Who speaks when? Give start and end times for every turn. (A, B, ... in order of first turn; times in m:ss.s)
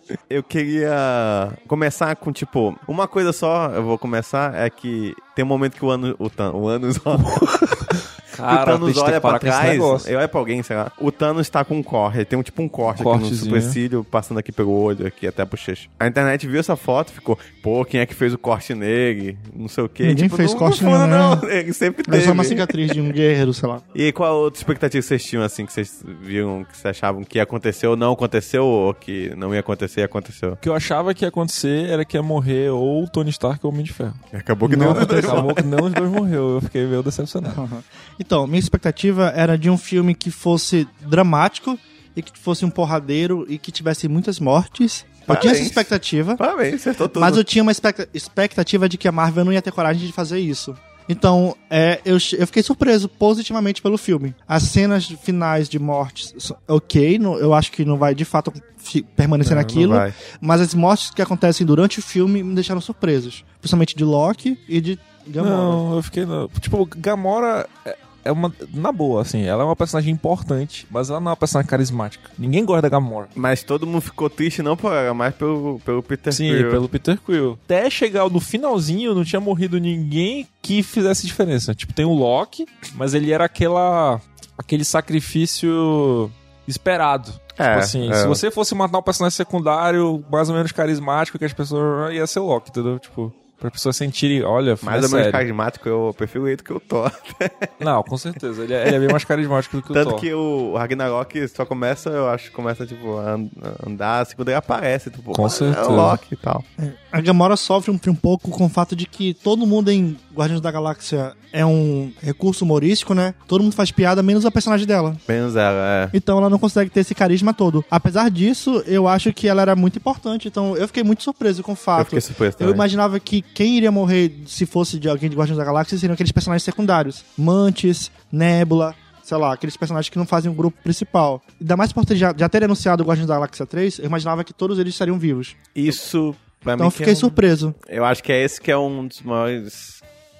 0:00.3-0:07.5 A
0:07.2-0:10.1 B
0:08.4-0:23.1 A
0:12.9-0:13.8 B
0:20.0-0:21.4 C
0:22.1-0:23.8 C
0:23.9-0:30.6 A
0:30.6-0:34.2 B
0:34.3-0:35.8 A
0:34.7-0:35.5 C
0:34.8-0:37.6 B
0:37.5-0:46.4 C
0:45.3-0:47.4 A
0:47.1-1:05.8 C
0:59.4-1:00.2 A
1:05.4-1:13.3 B
1:13.4-1:16.8 A
1:16.3-1:35.4 B
1:27.6-1:28.4 A
1:34.8-1:37.7 A
1:37.8-1:40.2 B
1:39.9-1:46.6 A
1:45.3-1:46.2 B
1:46.8-1:55.2 C
1:55.3-1:56.1 A
1:56.1-2:15.6 C
2:02.0-2:02.8 A
2:15.7-2:20.0 A
2:16.8-2:17.8 C